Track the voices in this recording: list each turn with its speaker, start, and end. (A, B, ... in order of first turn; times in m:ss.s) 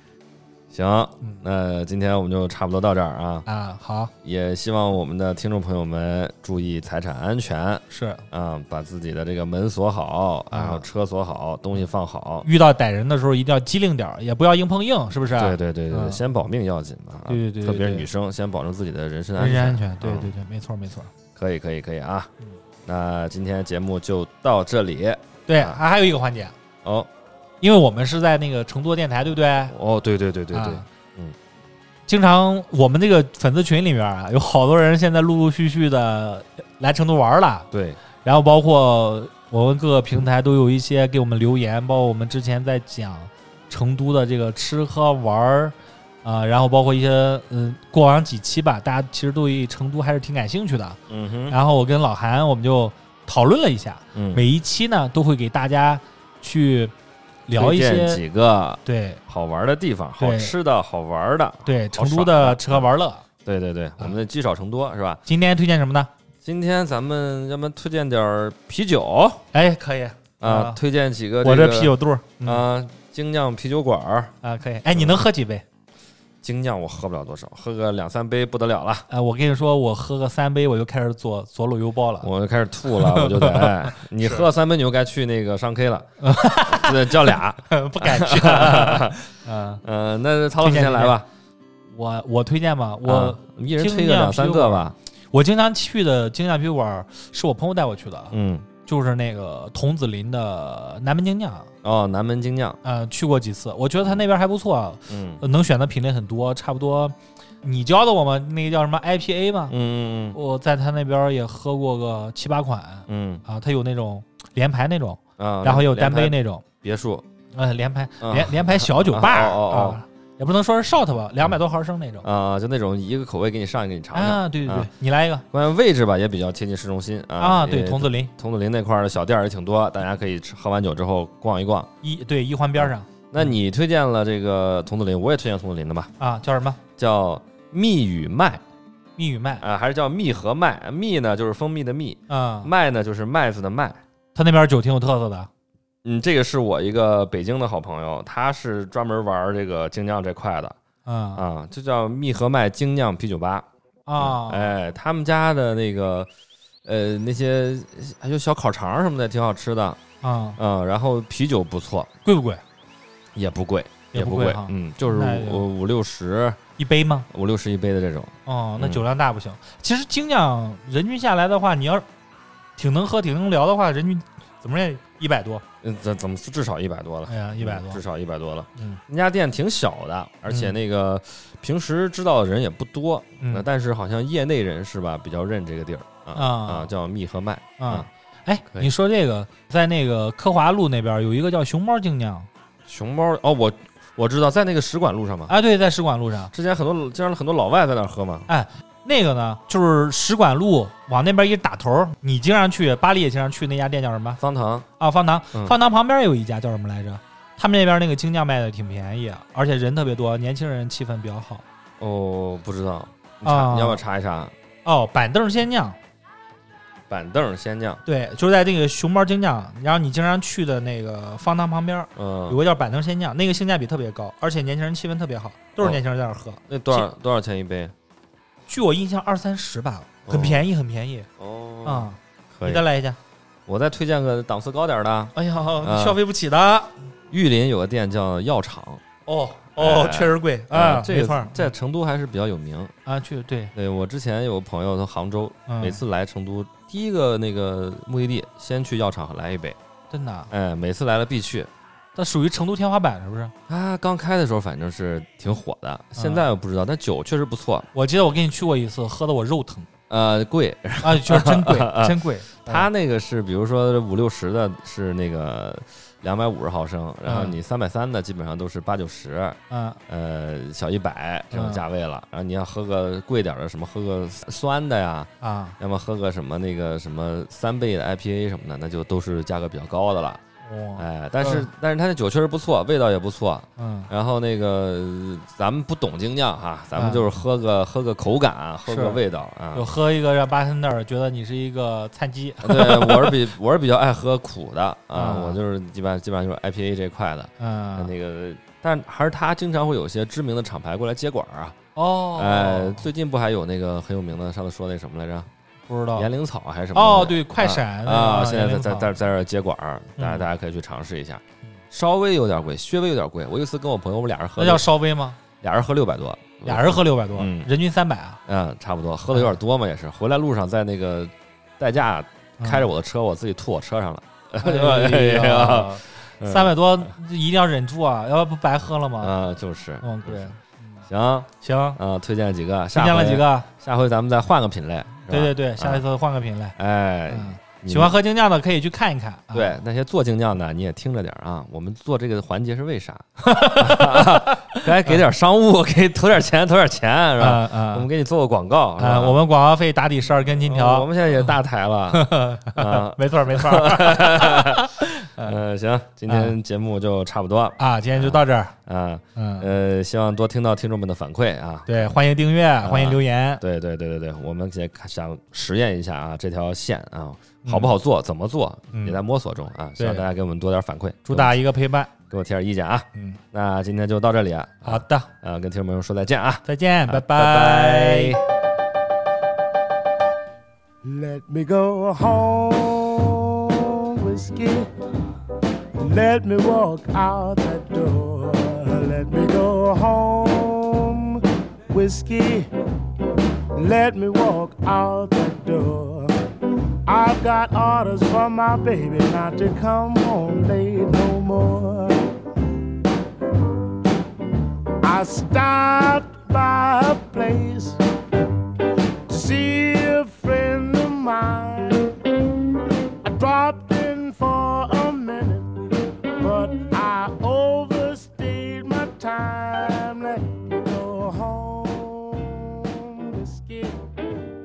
0:00.7-0:03.5 A
0:03.5-0:04.1 B
0:04.2-0:12.5 A
0:07.9-0:08.2 B
0:10.5-0:10.8 B
0:12.4-0:16.2 B
0:15.3-0:20.3 A
0:17.3-0:18.1 B
0:19.4-0:21.1 B
0:21.4-0:22.3 A
0:22.8-0:25.8 A
0:25.5-0:26.6 B
0:26.8-0:27.1 A
0:27.6-0:29.7 B
0:29.7-0:31.4 A
0:30.5-0:30.9 B
0:32.1-0:37.7 B
0:37.7-0:38.0 A
0:38.2-0:56.9 B
0:51.1-0:51.6 A
0:54.1-0:54.4 A
0:57.5-0:58.2 B
0:57.5-1:02.9 A
0:58.8-0:59.2 B
1:00.2-1:00.6 B
1:01.6-1:03.2 B
1:03.4-1:05.2 A
1:05.3-1:06.1 B
1:06.4-1:09.4 A
1:09.5-1:10.8 B
1:10.4-1:14.4 A
1:11.4-1:12.6 B
1:14.4-1:15.6 B
1:14.9-1:15.2 A
1:16.4-1:19.1 A
1:19.1-1:22.3 B
1:22.2-1:29.2 A
1:22.9-1:24.5 B
1:26.2-1:29.8 B
1:29.8-1:31.3 A
1:30.6-1:31.2 B
1:31.9-1:38.3 B
1:33.0-1:35.0 A
1:38.3-1:38.7 A
1:38.8-1:41.7 B
1:41.8-1:42.8 A
1:42.8-1:49.8 B
1:45.1-1:45.4 A
1:49.7-1:50.4 A
1:50.3-1:56.6 B
1:53.1-1:53.4 A
1:55.4-1:57.3 A
1:57.5-2:02.2 B
1:58.2-2:00.0 A
2:02.2-2:04.9 A
2:04.1-2:05.4 B
2:05.5-2:11.9 A
2:07.4-2:08.3 B
2:12.0-2:13.5 B
2:12.8-2:16.1 A
2:16.2-2:16.8 B
2:17.0-2:18.6 A
2:19.2-2:19.6 B
2:19.6-2:24.0 A
2:22.3-2:22.7 B
2:24.4-2:25.5 B
2:26.0-2:30.8 A
2:31.0-2:31.4 B
2:31.4-2:36.3 A
2:34.1-2:34.7 B
2:36.8-2:40.0 A
2:40.2-2:40.6 B
2:40.6-2:42.1 A
2:42.2-2:42.6 B
2:43.4-2:46.6 A
2:44.1-2:45.7 B
2:46.8-2:47.3 B
2:47.3-2:49.0 A
2:48.5-2:52.1 B
2:52.8-2:55.6 B
2:55.8-3:08.1 A
2:57.3-2:58.0 B
3:00.5-3:00.8 B
3:03.4-3:03.7 B
3:06.3-3:06.9 B
3:07.8-3:12.5 B
3:12.9-3:15.5 A
3:15.5-3:16.5 B
3:16.5-3:18.5 A
3:18.5-3:24.4 B
3:24.4-3:24.9 A
3:25.0-3:31.6 B
3:32.0-3:34.5 A
3:33.4-3:34.0 B
3:34.8-3:36.0 B
3:37.1-3:38.0 A
3:38.1-3:47.1 B
3:42.2-3:42.6 A
3:46.7-3:47.9 A
3:48.7-3:51.3 B
3:50.3-3:50.7 A
3:51.4-3:52.9 A
3:51.8-3:53.2 B
3:53.7-3:56.2 A
3:55.4-3:57.0 B
3:57.3-3:59.0 A
3:59.3-4:01.7 B
3:59.8-4:02.9 A
4:03.0-4:03.7 B
4:03.8-4:09.8 A
4:05.7-4:06.0 B
4:10.1-4:10.5 B
4:10.5-4:11.7 A
4:12.2-4:13.5 B
4:13.7-4:17.9 A
4:16.2-4:16.4 B
4:17.9-4:19.9 B
4:20.1-4:40.4 A
4:21.0-4:22.9 B
4:27.3-4:27.6 B
4:29.7-4:30.0 B
4:31.5-4:31.8 B
4:35.4-4:35.8 B
4:40.6-4:41.7 B
4:41.0-4:49.9 A
4:43.8-4:44.1 B
4:47.0-4:47.3 B
4:48.9-4:49.2 B
4:49.7-4:53.4 B
4:52.6-5:01.8 A
4:55.1-4:55.6 B
4:57.6-4:58.1 B
5:02.0-5:03.1 B
5:02.4-5:05.5 A
5:05.9-5:06.3 B
5:06.2-5:14.9 A
5:06.9-5:09.1 B
5:10.2-5:10.5 B
5:14.6-5:15.4 B
5:15.6-5:17.7 A
5:16.6-5:18.4 B
5:18.5-5:27.1 A
5:22.6-5:22.9 B
5:24.6-5:29.3 B
5:29.2-5:30.5 A
5:30.0-5:31.0 B
5:31.1-5:36.0 A
5:31.6-5:32.0 B
5:32.9-5:33.7 B
5:35.3-5:36.8 B
5:36.8-5:38.2 A
5:37.3-5:39.8 B
5:39.5-5:49.4 A
5:43.4-5:45.2 B
5:47.4-5:48.1 B
5:49.0-5:51.1 B
5:50.6-6:02.1 A
5:52.1-5:55.6 B
5:56.3-5:56.5 B
5:57.8-5:58.8 B
5:59.4-5:59.7 B
6:01.9-6:03.6 B
6:02.8-6:11.6 A
6:07.6-6:07.9 B
6:08.9-6:09.2 B
6:10.0-6:10.3 B
6:11.3-6:12.1 B
6:12.3-6:18.4 A
6:13.2-6:13.4 B
6:14.8-6:15.3 B
6:16.6-6:18.4 B
6:21.0-6:24.9 C
6:26.0-6:32.7 C
6:33.7-6:36.4 C
6:37.1-6:42.3 C
6:45.0-6:48.0 C
6:49.3-6:52.3 C
6:53.2-6:55.7 C
6:56.4-7:04.1 C